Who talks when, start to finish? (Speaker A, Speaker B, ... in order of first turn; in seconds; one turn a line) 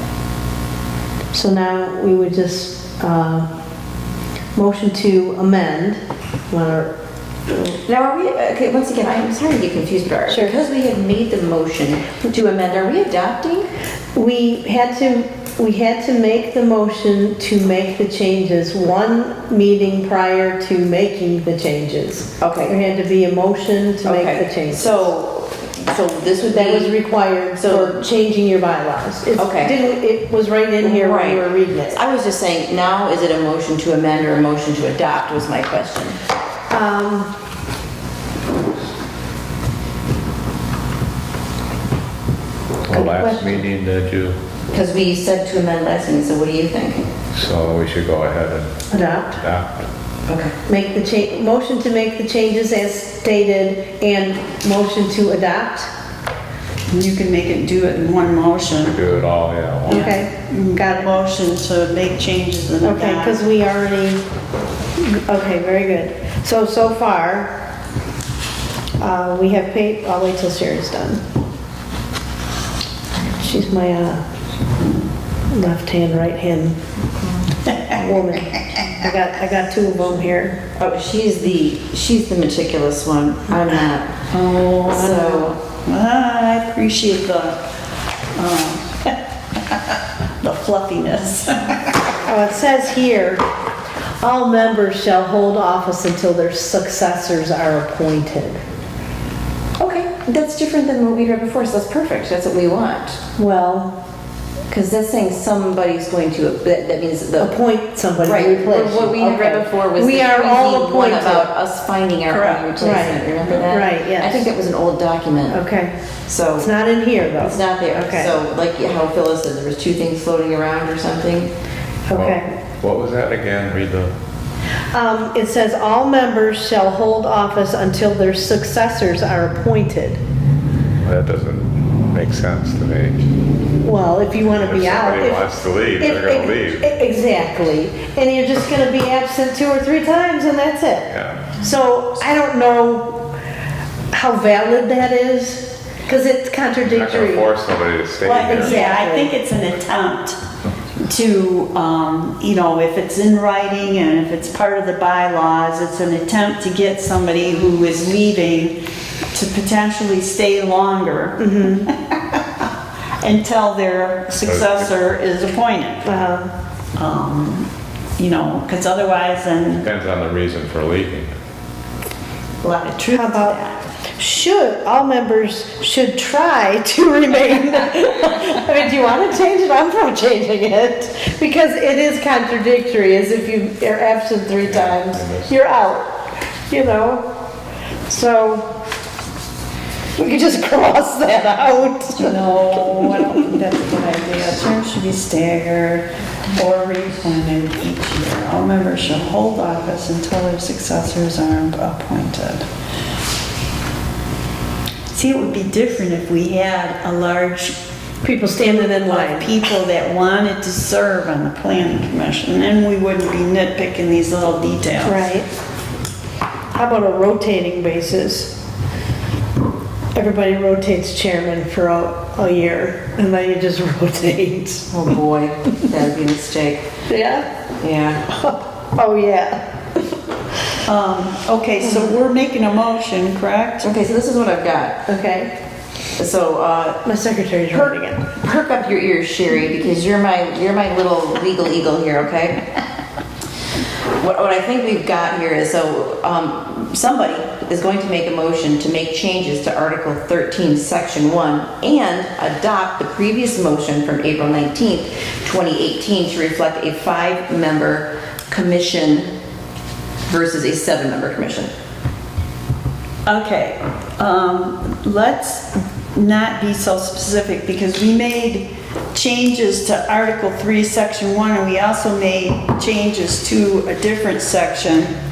Speaker A: 1.3-3.5
Speaker A: 4.5-6.9
Speaker B: 7.5-13.7
Speaker A: 10.3-10.6
Speaker A: 14.1-25.0
Speaker B: 22.4-22.8
Speaker B: 24.0-27.0
Speaker A: 26.5-32.0
Speaker B: 27.6-28.0
Speaker B: 29.4-29.8
Speaker B: 30.8-36.2
Speaker A: 36.7-37.3
Speaker C: 42.8-44.4
Speaker A: 42.9-43.6
Speaker B: 44.7-47.0
Speaker C: 47.3-49.7
Speaker A: 48.9-49.4
Speaker B: 50.3-50.5
Speaker A: 50.6-55.9
Speaker D: 56.9-59.0
Speaker C: 58.8-60.1
Speaker A: 59.9-61.1
Speaker D: 59.9-63.4
Speaker A: 62.8-64.2
Speaker A: 65.0-67.5
Speaker A: 69.0-71.2
Speaker A: 73.3-74.2
Speaker A: 75.5-76.8
Speaker A: 77.8-80.6
Speaker B: 80.8-84.1
Speaker D: 84.3-87.6
Speaker B: 84.9-85.6
Speaker D: 88.3-89.2
Speaker D: 89.7-91.8
Speaker A: 92.2-93.4
Speaker A: 94.2-98.6
Speaker B: 99.8-103.2
Speaker A: 103.3-103.9
Speaker B: 104.7-107.5
Speaker A: 107.4-111.4
Speaker B: 108.2-115.6
Speaker D: 112.3-112.7
Speaker A: 112.8-114.5
Speaker A: 115.5-115.9
Speaker B: 116.3-116.7
Speaker A: 116.6-118.3
Speaker B: 117.4-121.5
Speaker A: 122.1-122.5
Speaker C: 122.1-124.1
Speaker A: 124.9-130.2
Speaker C: 131.0-133.2
Speaker A: 133.8-143.3
Speaker C: 134.5-136.8
Speaker C: 141.1-141.5
Speaker A: 144.1-147.5
Speaker C: 146.8-148.8
Speaker D: 148.2-150.4
Speaker A: 148.4-149.3
Speaker D: 151.0-158.8
Speaker D: 159.3-162.6
Speaker A: 161.4-161.9
Speaker D: 163.2-166.0
Speaker C: 164.4-164.9
Speaker A: 166.0-166.5
Speaker D: 166.9-169.9
Speaker C: 169.8-171.3
Speaker D: 172.6-173.8
Speaker A: 173.1-173.6
Speaker A: 174.2-187.3
Speaker C: 184.6-185.5
Speaker A: 188.1-188.7
Speaker A: 190.2-192.4
Speaker D: 192.2-202.7
Speaker D: 205.1-207.8
Speaker A: 208.2-209.5
Speaker D: 209.0-215.3
Speaker A: 215.0-215.5
Speaker A: 216.7-218.5
Speaker A: 220.1-224.9
Speaker B: 224.9-226.8
Speaker A: 227.1-227.5
Speaker B: 227.8-228.2
Speaker A: 228.3-229.6
Speaker D: 230.8-233.8
Speaker B: 233.8-235.0
Speaker A: 235.1-235.5
Speaker B: 236.2-237.0
Speaker A: 237.0-238.3
Speaker B: 237.7-242.8
Speaker B: 244.0-259.3
Speaker B: 260.3-261.7
Speaker D: 263.2-275.1